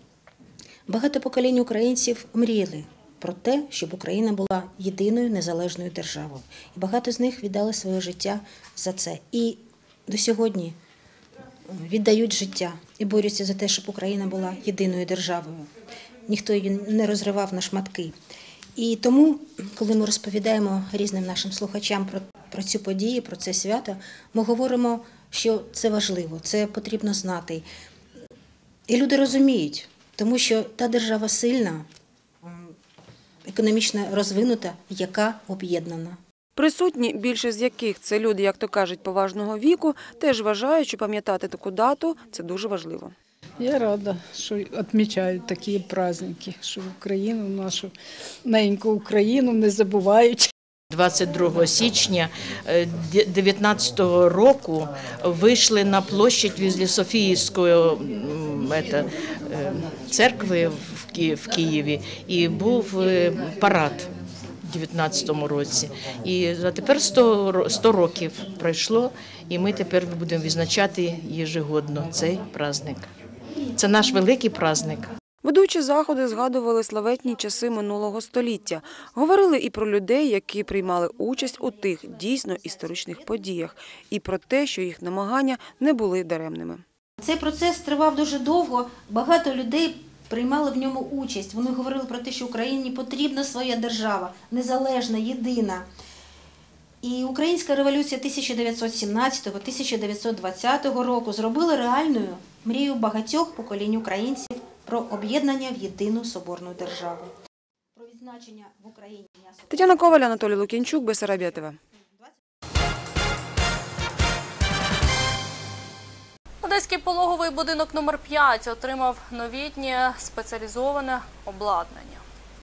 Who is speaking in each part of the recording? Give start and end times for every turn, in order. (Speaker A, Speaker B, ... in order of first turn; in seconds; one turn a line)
Speaker A: 0.9-10.8
Speaker A: 11.7-15.7
Speaker A: 16.2-18.1
Speaker A: 18.8-27.6
Speaker A: 28.9-31.9
Speaker A: 32.4-32.8
Speaker A: 33.4-36.2
Speaker B: 36.5-43.1
Speaker C: 43.6-50.5
Speaker D: 50.9-64.1
Speaker D: 64.6-73.1
Speaker D: 73.7-75.1
Speaker B: 75.4-86.8
Speaker A: 87.2-95.9
Speaker A: 97.0-107.3
Speaker A: 107.9-110.2
Speaker B: 109.7-111.8
Speaker E: 116.6-122.2